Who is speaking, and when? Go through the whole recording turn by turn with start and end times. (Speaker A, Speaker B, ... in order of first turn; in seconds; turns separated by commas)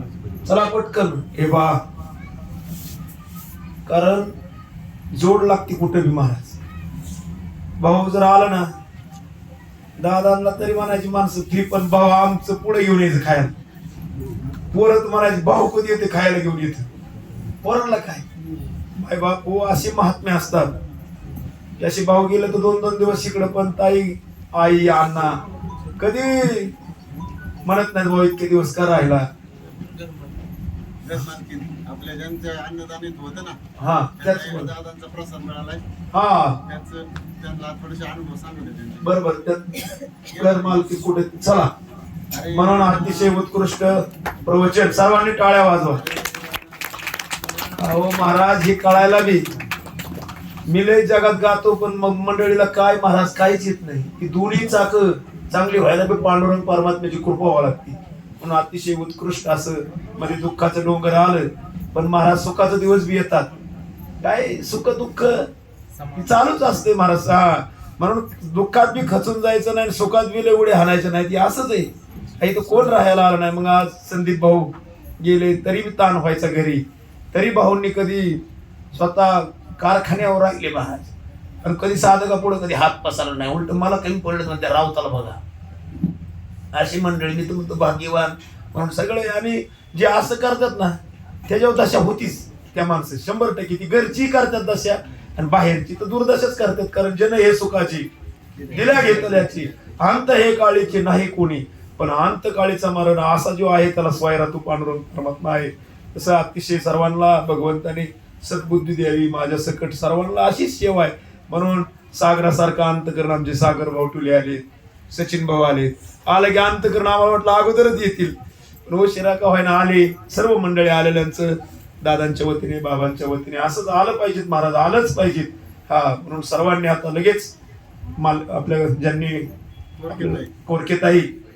Speaker A: 0.4-1.8, Speaker A: 3.9-4.3, Speaker A: 5.1-6.6, Speaker A: 7.8-8.7, Speaker A: 10.0-13.5, Speaker A: 14.7-16.9, Speaker A: 17.6-18.2, Speaker A: 19.0-20.7, Speaker A: 21.8-25.3, Speaker A: 26.0-26.7, Speaker A: 27.6-29.2, Speaker B: 31.0-33.6, Speaker A: 33.8-34.7, Speaker B: 34.2-35.8, Speaker A: 36.1-36.6, Speaker B: 36.6-39.1, Speaker A: 39.0-41.7, Speaker B: 40.3-40.8, Speaker B: 42.3-43.3, Speaker A: 42.5-46.0, Speaker B: 45.9-46.6, Speaker A: 47.8-49.4, Speaker A: 50.7-63.5, Speaker A: 64.2-65.5, Speaker A: 66.1-71.9, Speaker A: 72.4-78.4, Speaker A: 78.9-85.4, Speaker A: 86.7-98.1, Speaker A: 98.7-118.3, Speaker A: 118.9-127.5, Speaker A: 128.2-129.4, Speaker B: 130.0-130.5, Speaker A: 130.1-131.3